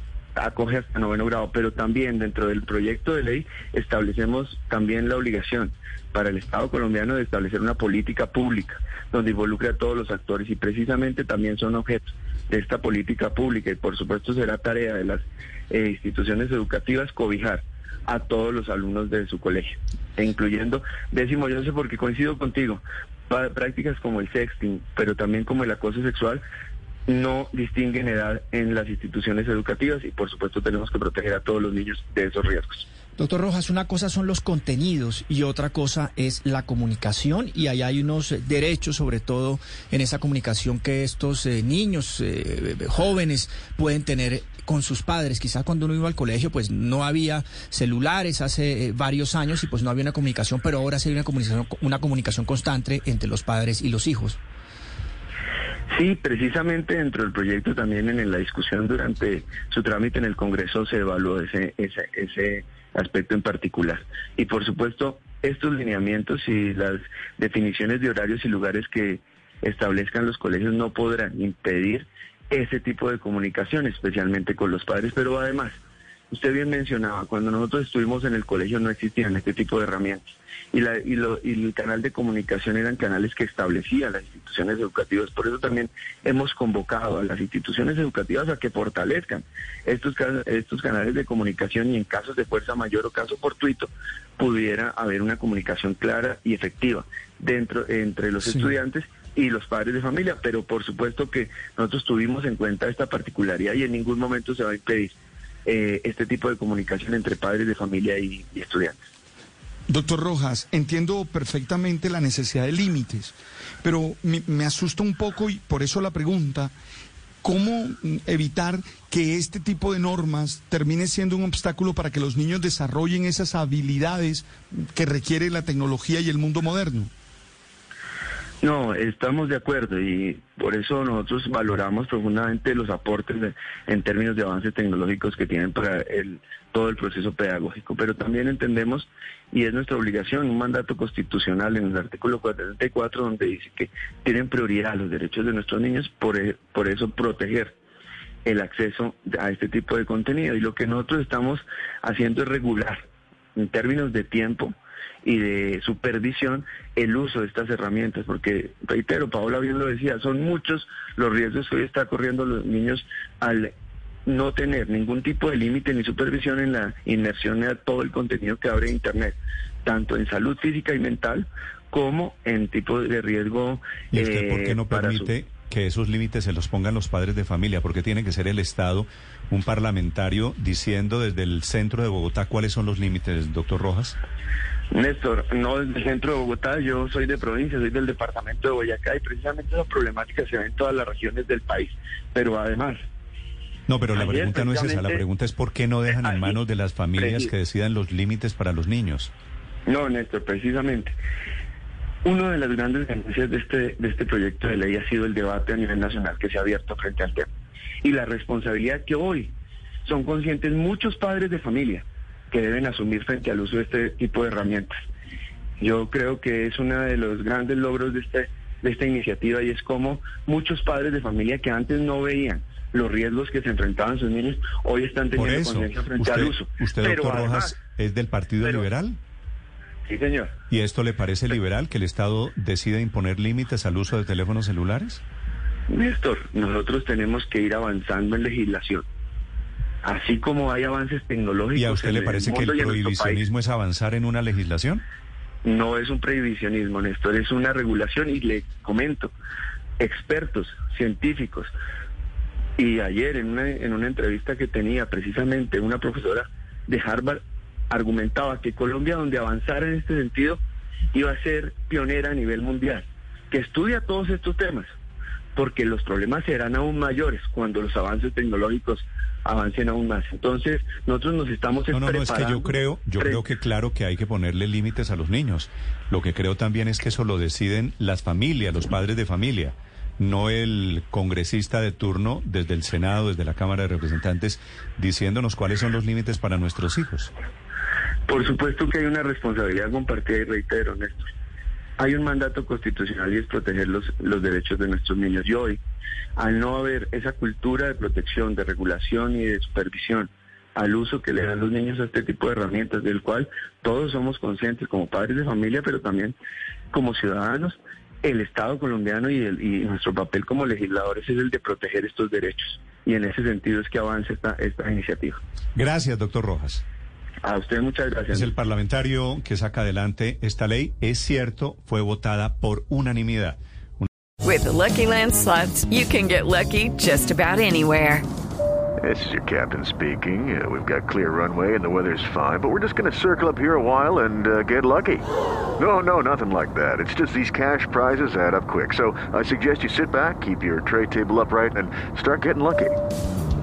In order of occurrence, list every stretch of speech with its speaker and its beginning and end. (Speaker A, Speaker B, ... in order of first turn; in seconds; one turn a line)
Speaker A: 0.3-26.4
Speaker A: 27.1-32.9
Speaker B: 33.1-54.4
Speaker A: 55.9-75.8
Speaker A: 76.3-109.0
Speaker C: 109.9-116.7
Speaker C: 117.4-127.1
Speaker A: 128.6-147.7
Speaker A: 148.4-153.0
Speaker A: 153.6-163.7
Speaker A: 164.2-175.3
Speaker D: 174.1-184.2
Speaker A: 184.9-193.0
Speaker D: 193.9-199.3
Speaker A: 194.1-195.2
Speaker A: 196.1-196.6
Speaker A: 197.2-197.5
Speaker A: 199.8-201.2
Speaker A: 202.2-207.5
Speaker A: 208.0-214.9
Speaker A: 215.8-227.7
Speaker D: 225.3-229.2
Speaker A: 230.1-230.5
Speaker D: 230.7-235.2
Speaker A: 235.9-239.0
Speaker A: 240.0-243.4
Speaker D: 241.7-245.0
Speaker A: 245.6-249.3
Speaker A: 250.0-251.7
Speaker A: 252.8-260.6
Speaker A: 261.1-264.9
Speaker A: 265.6-273.4
Speaker D: 271.9-287.3
Speaker A: 288.3-291.3
Speaker A: 292.0-295.8
Speaker A: 296.4-306.4
Speaker A: 306.9-315.4
Speaker D: 315.8-316.8
Speaker A: 317.4-318.5
Speaker D: 318.3-324.1
Speaker E: 324.4-328.2
Speaker F: 329.0-335.2
Speaker F: 335.8-343.0